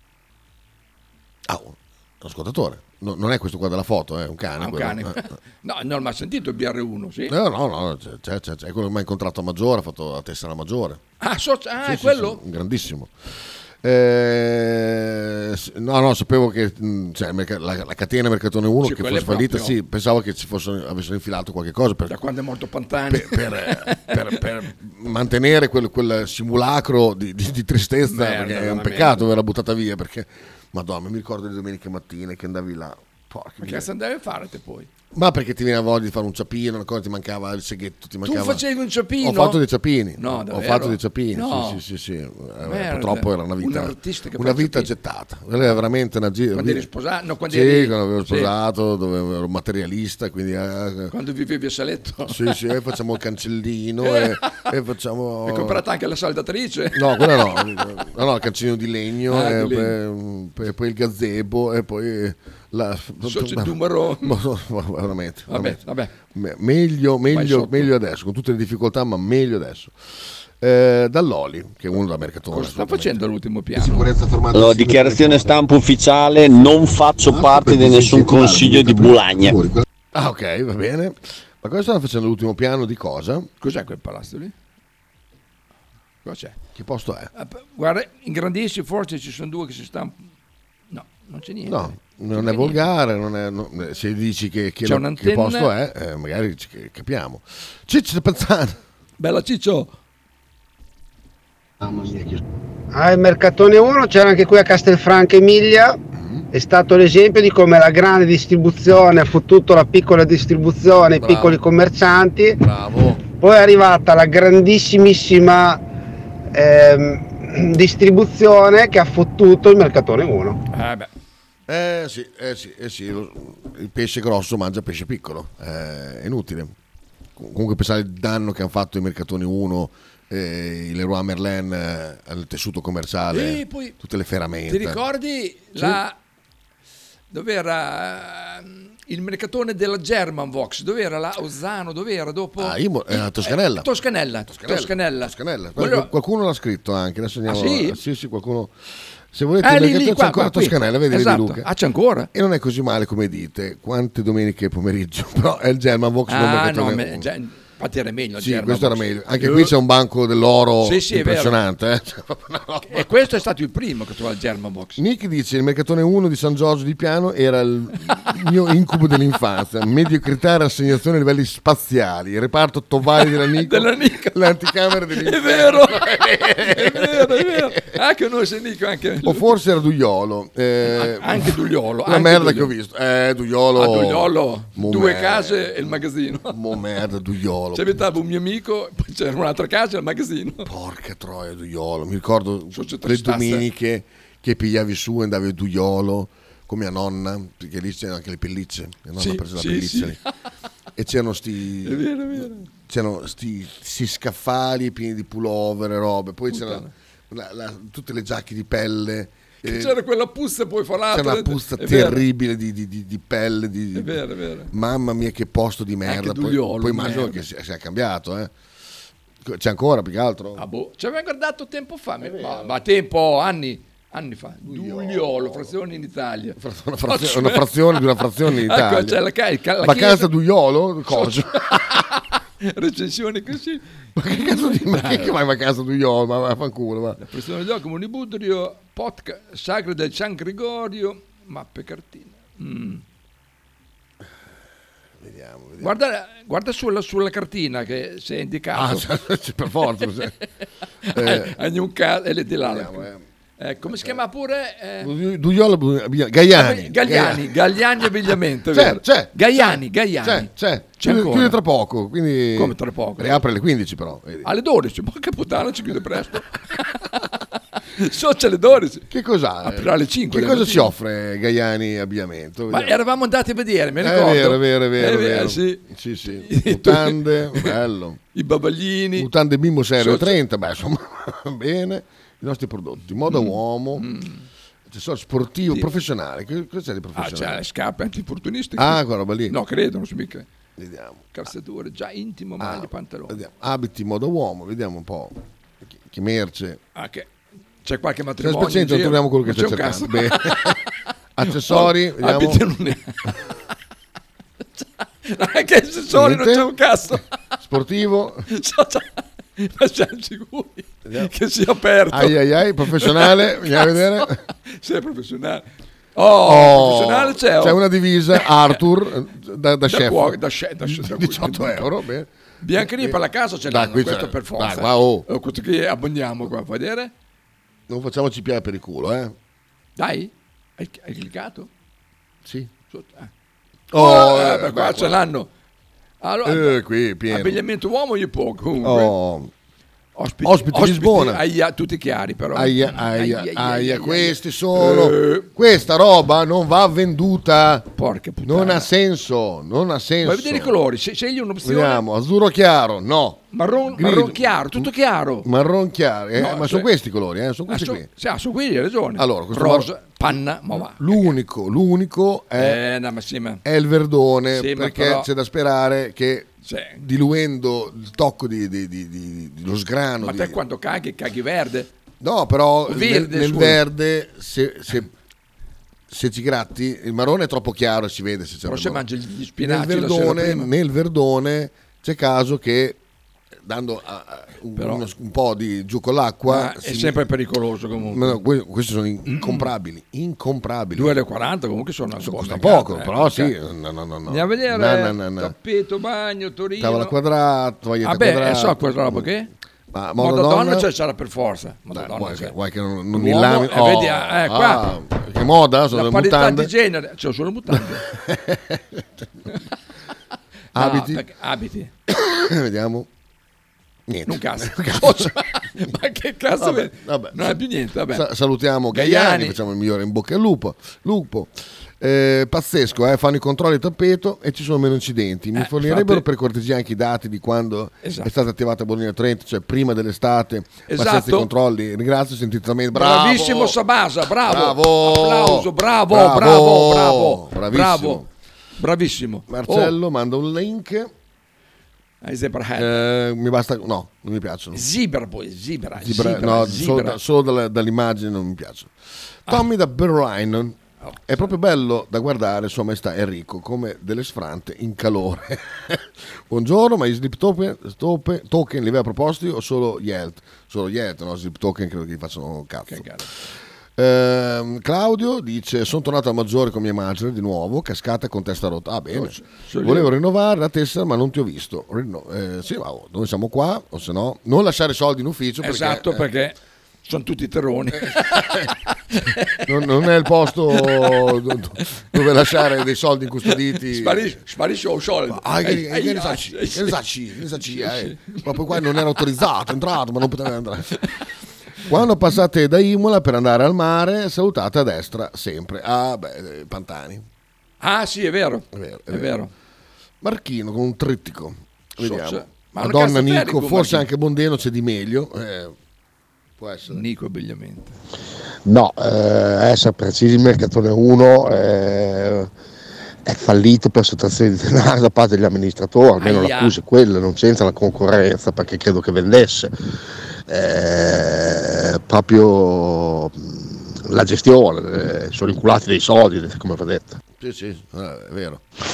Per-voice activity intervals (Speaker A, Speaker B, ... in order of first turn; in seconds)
Speaker A: 1.4-5.2, 7.3-11.0, 11.8-22.2, 23.1-33.9, 35.1-38.6, 39.2-46.9, 47.5-51.1, 52.3-55.8, 56.9-69.9, 70.6-73.2, 73.8-74.9, 80.1-83.5, 86.7-87.3, 91.6-98.8, 106.2-106.5, 111.1-111.6, 112.6-113.2, 121.7-126.7, 127.4-135.0, 142.6-143.9, 144.5-148.7, 149.3-151.7, 152.3-157.2, 158.4-163.1, 165.0-177.9, 179.2-181.5, 182.0-185.9, 186.5-188.0, 190.6-200.2, 201.0-209.9, 211.1-214.2, 214.7-218.5, 219.4-220.6, 222.2-222.7, 224.6-225.7, 226.6-229.2, 229.8-232.0, 234.2-237.2, 245.2-245.9, 248.7-250.3, 251.1-251.5, 252.6-253.2, 253.9-254.2, 255.0-257.6, 258.7-259.3, 260.2-264.5, 269.1-273.0, 274.0-278.2, 279.2-284.1, 284.9-287.6, 288.8-289.6, 290.8-291.3, 292.6-296.8, 298.4-300.8, 301.4-302.6, 306.1-306.7, 307.6-308.5, 311.0-311.3, 312.1-314.4, 316.4-325.2, 327.9-329.3, 332.4-332.7, 333.9-335.2, 336.4-337.6, 338.8-339.5, 340.4-341.4, 342.5-347.9, 348.4-350.7, 351.6-354.9, 355.4-358.1, 359.2-359.9, 360.7-362.8, 363.6-370.6, 372.2-375.1, 376.1-379.0, 379.6-383.0, 383.6-387.3, 388.0-391.2, 392.2-395.5, 396.8-399.3, 399.9-400.9, 401.9-406.7, 407.7-409.2, 410.7-411.2, 412.1-413.1, 414.1-415.3, 416.6-433.8, 434.4-438.3, 439.5-441.1, 442.8-444.9, 446.0-448.9, 449.4-463.1, 463.9-476.2, 477.9-478.7, 479.6-484.4, 485.3-491.0, 491.8-497.2, 498.7-499.4, 500.2-505.7, 506.6-507.0, 527.4-528.6
Speaker B: 4.6-7.3, 11.2-12.4, 18.8-19.8, 22.1-24.4, 28.1-29.3, 33.6-34.9, 38.2-39.6, 40.2-41.8, 42.6-44.9, 46.5-48.5, 51.1-52.5, 54.0-54.6, 55.5-57.8, 59.3-60.0, 63.2-64.4, 65.5-66.1, 67.3-67.9, 72.5-74.1, 83.6-84.5, 86.2-86.6, 87.3-90.2, 90.9-92.8, 94.8-95.7, 99.2-99.9, 120.7-121.1, 133.3-133.9, 134.7-136.2, 137.3-146.1, 147.5-148.0, 149.6-152.3, 156.3-159.7, 160.8-161.6, 162.9-165.0, 173.4-174.5, 175.1-179.5, 180.8-182.7, 183.8-186.6, 187.7-190.7, 192.7-193.7, 199.2-200.2, 201.8-202.7, 206.5-206.9, 209.6-212.2, 213.9-214.7, 216.0-217.4, 220.6-230.3, 231.1-235.3, 237.2-243.0, 245.8-249.0, 251.1-253.0, 253.6-255.1, 256.5-261.6, 262.5-263.4, 264.4-267.4, 267.9-269.1, 269.6-270.9, 272.7-275.8, 276.4-277.8, 278.3-279.3, 280.0-280.4, 283.3-284.5, 285.6-285.9, 287.1-290.5, 291.3-293.4, 296.9-297.3, 297.8-300.8, 301.5-303.3, 304.8-307.2, 308.5-312.4, 312.9-317.8, 318.3-318.8, 319.9-321.9, 322.6-327.1, 330.0-331.7, 332.9-333.3, 333.9-335.5, 336.2-336.8, 337.3-339.1, 340.1-345.5, 348.0-348.9, 350.2-352.0, 353.5-355.4, 356.4-356.9, 357.7-361.3, 362.6-363.6, 364.5-365.3, 366.6-367.0, 370.2-371.9, 372.9-373.8, 378.6-380.7, 384.8-385.0, 386.5-388.4, 389.2-389.7, 390.9-393.5, 394.3-397.1, 398.0-399.5, 400.2-402.6, 403.1-404.9, 405.9-408.0, 410.7-411.9, 414.2-418.2, 418.9-419.6, 425.6-426.2, 428.0-428.3, 430.9-431.5, 432.9-438.2, 438.8-439.9, 442.2-442.9, 444.7-447.2, 451.0-451.5, 462.9-463.3, 469.1-470.1, 475.6-479.7, 480.7-481.3, 483.5-487.0, 487.6-489.2, 497.8-499.5, 502.0-504.1, 506.9-508.0, 516.2-516.8
Speaker C: 74.5-79.6
Speaker D: 77.7-78.9, 101.8-102.3, 508.6-512.5, 513.2-519.7, 520.5-527.2
Speaker E: 102.9-106.0, 106.5-112.6, 113.3-115.8, 116.5-120.6